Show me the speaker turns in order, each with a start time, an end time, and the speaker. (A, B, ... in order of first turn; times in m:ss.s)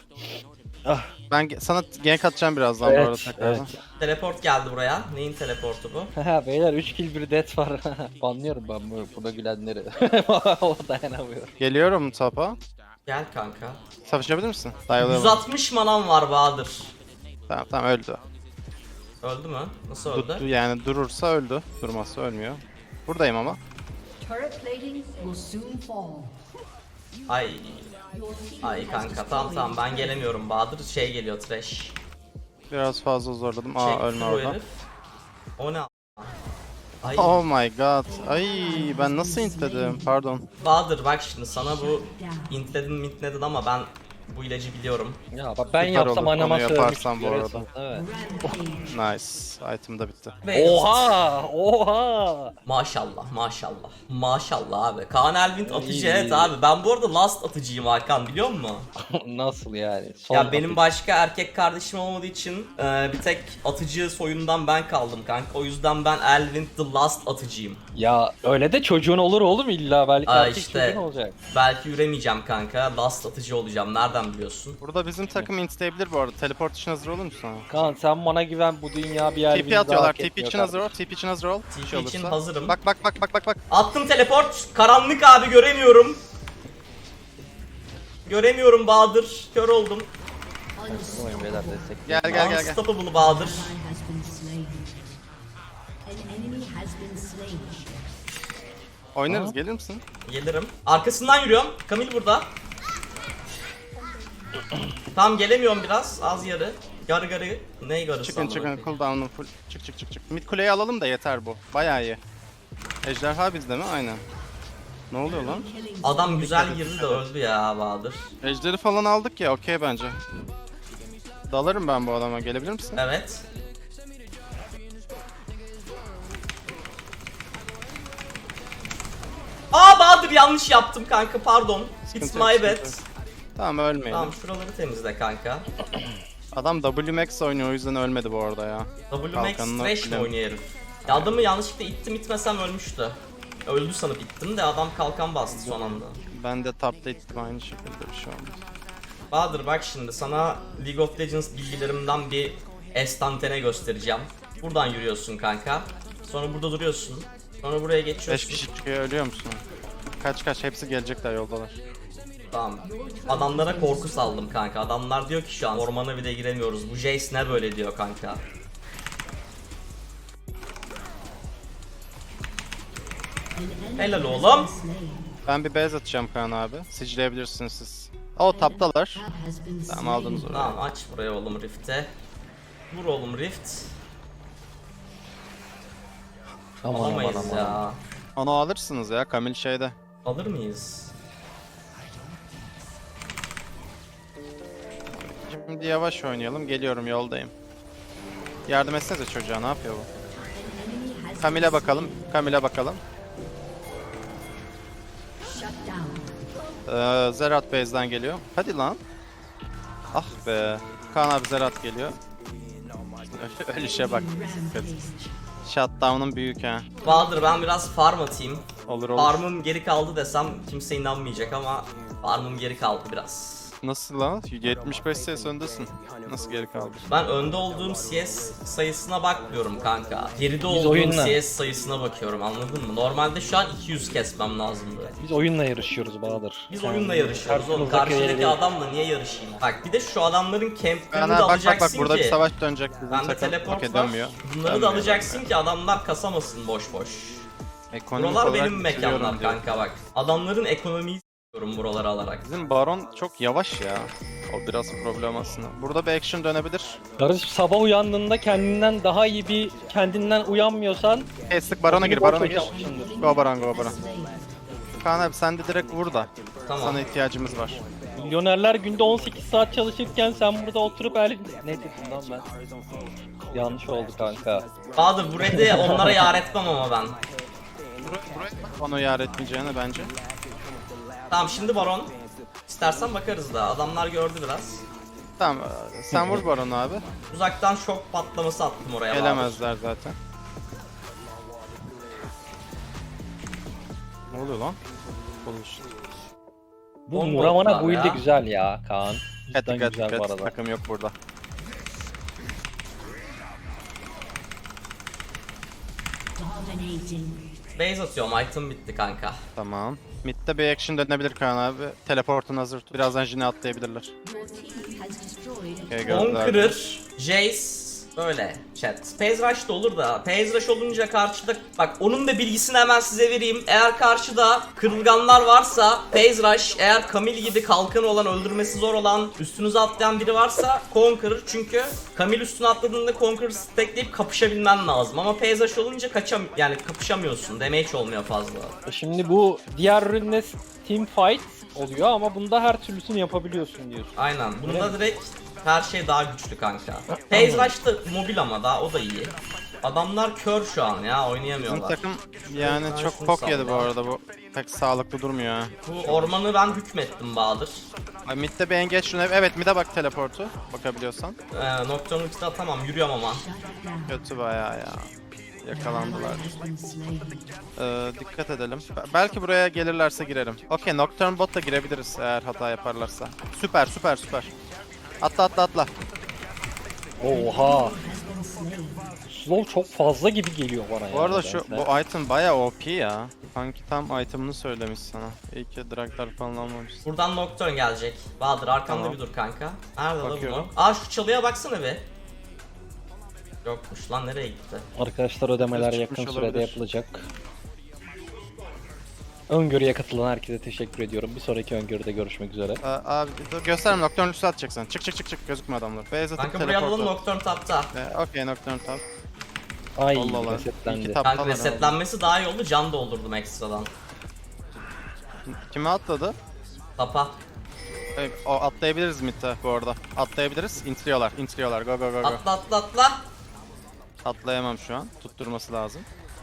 0:00.8-0:01.1 A
0:01.3-0:03.7 B
0:02.8-0:03.8 A
0:04.0-0:06.1 C
0:06.1-0:11.5 A
0:11.6-0:12.6 B
0:13.0-0:13.8 C
0:14.1-0:15.4 B
0:15.0-0:16.9 C
0:17.5-0:18.2 B
0:19.2-0:20.4 C
0:20.1-0:23.6 B
0:24.2-0:26.3 D
0:27.3-0:27.9 C
0:28.1-0:30.1 D
0:28.6-0:32.0 C
0:32.7-0:34.6 B
0:33.8-0:34.8 C
0:35.6-0:36.3 C
0:37.0-0:37.4 C
0:37.0-0:40.4 B
0:38.1-0:40.0 D
0:40.6-0:45.2 C
0:41.7-0:42.5 D
0:45.3-0:48.6 A
0:45.8-0:47.7 B
0:47.9-0:48.9 D
0:48.9-0:50.4 B
0:50.4-0:51.2 C
0:50.5-0:52.5 A
0:52.6-0:58.9 C
0:55.6-0:56.5 A
0:59.1-1:00.8 A
1:00.3-1:07.8 C
1:07.9-1:11.3 A
1:10.2-1:14.8 C
1:14.8-1:17.7 B
1:17.7-1:20.9 A
1:19.5-1:23.6 B
1:21.7-1:22.8 C
1:23.7-1:26.2 C
1:28.2-1:30.1 C
1:30.8-1:31.9 D
1:30.8-1:32.6 A
1:32.1-1:32.8 B
1:32.3-1:33.8 C
1:33.2-1:35.0 D
1:36.0-1:38.0 D
1:39.1-1:40.0 B
1:39.3-1:39.6 A
1:40.2-1:42.5 C
1:45.1-1:48.9 C
1:48.2-1:52.2 B
1:53.0-1:54.2 B
1:55.1-1:55.7 B
1:55.5-1:56.0 D
1:56.0-1:58.3 C
1:56.2-1:57.3 B
1:58.4-2:00.2 B
2:01.5-2:03.0 B
2:03.0-2:03.4 C
2:09.7-2:13.0 C
2:12.1-2:13.0 B
2:13.6-2:14.3 B
2:14.1-2:15.6 C
2:16.5-2:20.3 B
2:19.1-2:26.2 C
2:25.5-2:28.6 B
2:29.3-2:38.6 C
2:38.3-2:39.6 B
2:40.2-2:41.8 B
2:42.5-2:48.4 C
2:42.9-2:44.3 D
2:53.6-2:55.2 D
2:54.0-2:54.7 C
2:55.4-2:59.2 B
2:58.6-3:00.4 D
2:59.9-3:00.8 B
3:00.4-3:02.1 C
3:02.9-3:03.9 C
3:06.8-3:07.8 A
3:06.9-3:08.0 C
3:08.4-3:09.9 B
3:10.2-3:11.1 C
3:15.3-3:17.5 B
3:18.7-3:20.1 B
3:20.4-3:22.2 D
3:21.4-3:23.0 B
3:25.5-3:26.3 D
3:26.9-3:29.0 B
3:30.1-3:32.2 B
3:33.3-3:35.1 B
3:34.0-3:35.2 D
3:35.6-3:36.9 B
3:37.0-3:43.7 C
3:38.9-3:39.4 B
3:43.8-3:47.0 B
3:47.1-3:55.1 C
3:50.7-3:51.4 A
3:55.2-3:58.6 A
3:56.7-4:02.4 C
4:01.1-4:05.5 B
4:03.1-4:07.4 C
4:07.9-4:09.8 B
4:08.1-4:12.4 C
4:12.4-4:17.0 B
4:17.2-4:21.3 A
4:21.5-4:24.0 B
4:21.9-4:23.2 A
4:21.9-4:24.5 D
4:25.0-4:27.8 B
4:26.6-4:27.0 C
4:28.2-4:32.4 A
4:33.5-4:34.6 A
4:35.0-4:37.2 C
4:35.5-4:36.2 A
4:38.0-4:40.1 B
4:41.3-4:42.1 C
4:42.7-4:44.8 C
4:45.4-4:47.0 B
4:46.1-4:46.4 A
4:47.3-4:49.6 C
4:49.1-4:50.2 B
4:54.3-4:54.8 B
4:55.4-4:55.9 B
4:57.1-5:00.5 A
4:57.1-4:58.2 C
4:59.5-5:01.1 B
5:06.4-5:07.5 D
5:07.8-5:09.4 C
5:09.6-5:14.1 B
5:14.2-5:16.3 D
5:15.9-5:16.8 B
5:16.1-5:38.7 C
5:38.8-5:45.0 A
5:44.2-5:53.9 C
5:47.3-5:47.7 A
5:51.6-5:56.4 B
5:55.8-5:57.8 C
5:58.2-6:01.4 B
6:01.5-6:03.4 C
6:03.4-6:04.1 D
6:04.1-6:05.1 B
6:05.6-6:06.6 B
6:05.7-6:07.5 D
6:07.8-6:14.5 B
6:15.2-6:15.9 B
6:17.2-6:18.0 A
6:17.3-6:19.1 D
6:19.3-6:21.9 A
6:21.1-6:27.0 B
6:27.0-6:32.0 C
6:28.9-6:29.2 B
6:30.2-6:30.7 B
6:33.6-6:34.8 C
6:35.0-6:37.2 A
6:35.6-6:36.8 B
6:39.5-6:42.8 A
6:42.8-6:47.2 B
6:46.4-6:47.9 C
6:47.9-6:49.0 B
6:50.0-6:51.2 A
6:50.1-6:52.0 B
6:51.2-6:53.9 C
6:55.4-6:56.3 B
6:57.0-6:57.4 C
6:58.2-7:02.4 B
7:02.2-7:03.2 C
7:04.2-7:06.0 B